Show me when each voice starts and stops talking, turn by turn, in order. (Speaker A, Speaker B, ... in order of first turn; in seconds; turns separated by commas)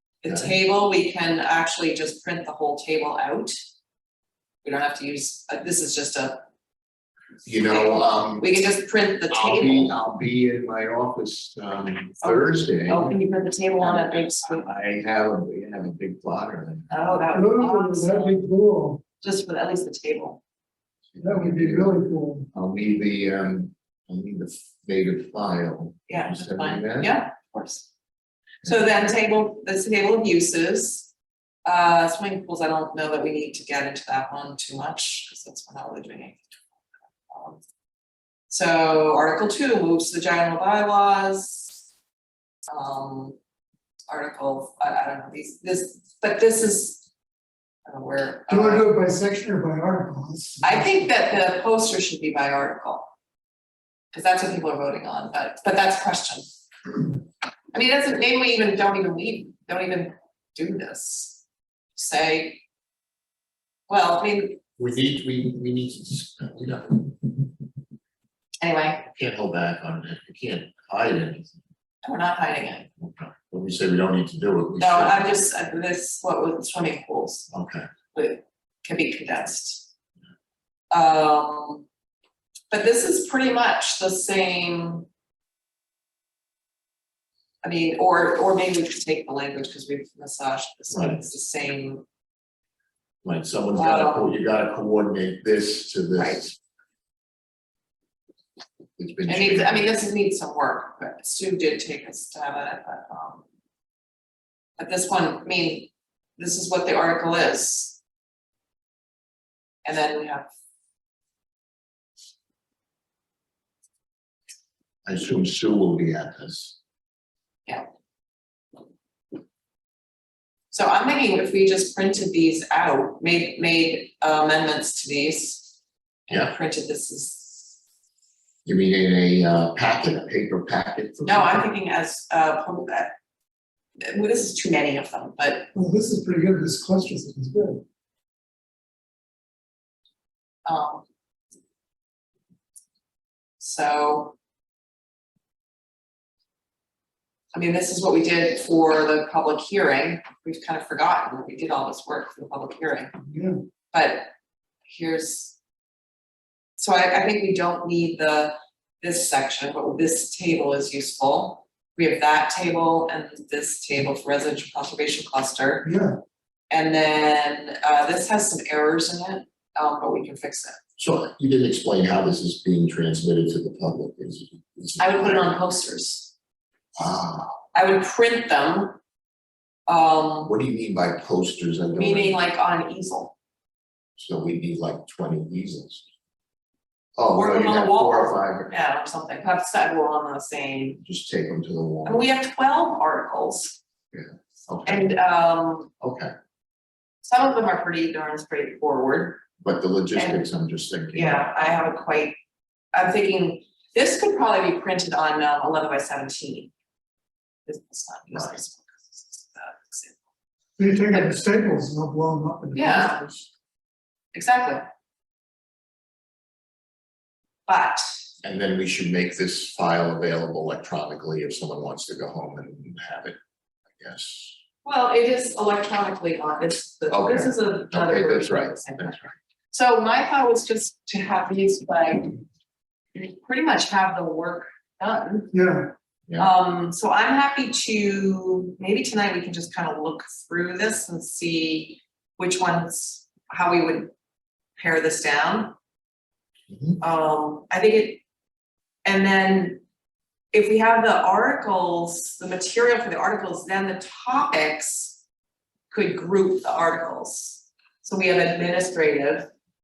Speaker A: 0.2-3.5, Speaker B: 0.2-0.5, Speaker A: 4.6-6.5, Speaker B: 7.4-8.5, Speaker A: 7.5-9.9, Speaker B: 9.3-13.2, Speaker A: 12.2-14.7, Speaker B: 13.8-17.2, Speaker A: 16.9-18.4, Speaker C: 17.3-19.0, Speaker A: 19.2-20.4, Speaker B: 21.1-21.9, Speaker C: 21.2-22.5, Speaker B: 22.5-27.1, Speaker A: 26.1-27.9, Speaker A: 28.6-31.1, Speaker A: 31.6-36.5, Speaker A: 37.3-37.6, Speaker A: 38.5-41.8, Speaker A: 42.7-43.4, Speaker A: 44.1-47.0, Speaker A: 47.9-48.9, Speaker C: 48.5-51.1, Speaker A: 50.6-53.1, Speaker A: 54.1-56.5, Speaker A: 57.7-61.4, Speaker A: 62.0-62.6, Speaker A: 63.9-64.6, Speaker B: 64.8-67.3, Speaker A: 68.6-69.1, Speaker B: 69.1-71.5, Speaker A: 72.0-72.9, Speaker B: 73.0-75.3, Speaker A: 74.8-77.5, Speaker B: 77.5-77.9, Speaker A: 78.1-79.9, Speaker A: 80.9-81.8, Speaker A: 82.7-85.1, Speaker A: 87.6-92.0, Speaker B: 90.9-91.2, Speaker B: 93.2-96.6, Speaker A: 93.7-94.3, Speaker A: 96.2-96.4, Speaker B: 99.0-99.9, Speaker A: 99.2-103.4, Speaker A: 104.8-108.0, Speaker A: 109.8-110.5, Speaker B: 115.0-116.8, Speaker A: 120.7-127.8, Speaker B: 126.3-126.5, Speaker B: 128.6-131.6, Speaker A: 131.2-133.1, Speaker A: 134.0-135.7, Speaker C: 135.7-137.8, Speaker A: 140.7-141.0, Speaker A: 143.6-144.3, Speaker A: 147.5-153.1, Speaker C: 153.3-153.6, Speaker A: 153.9-154.3, Speaker A: 154.8-155.6, Speaker A: 156.8-165.9, Speaker C: 165.8-166.1, Speaker A: 166.7-170.8, Speaker B: 171.0-175.5, Speaker A: 175.0-176.3, Speaker B: 177.0-177.6, Speaker A: 177.7-179.0, Speaker A: 179.9-180.5, Speaker B: 180.4-182.4, Speaker A: 181.9-183.3, Speaker B: 184.2-186.1, Speaker B: 187.2-188.7, Speaker A: 187.3-191.0, Speaker B: 191.0-192.2, Speaker A: 192.0-193.8, Speaker B: 194.1-195.1, Speaker A: 194.8-195.9, Speaker B: 196.0-196.3, Speaker A: 197.2-199.4, Speaker B: 199.6-201.5, Speaker A: 200.1-200.5, Speaker A: 201.1-202.3, Speaker A: 202.9-206.7, Speaker A: 207.7-210.2, Speaker B: 208.3-208.6, Speaker C: 210.8-213.2, Speaker A: 211.1-211.4, Speaker A: 212.7-213.2, Speaker A: 214.3-214.8, Speaker A: 217.7-218.0, Speaker B: 218.4-223.4, Speaker B: 224.0-224.6, Speaker A: 224.8-229.2, Speaker B: 227.1-229.3, Speaker A: 229.7-232.3, Speaker A: 233.1-235.5, Speaker C: 235.5-235.9, Speaker A: 236.4-244.1, Speaker A: 244.8-245.8, Speaker B: 246.7-247.0, Speaker A: 247.0-248.2, Speaker A: 249.0-249.8, Speaker A: 250.5-255.2, Speaker A: 255.9-259.5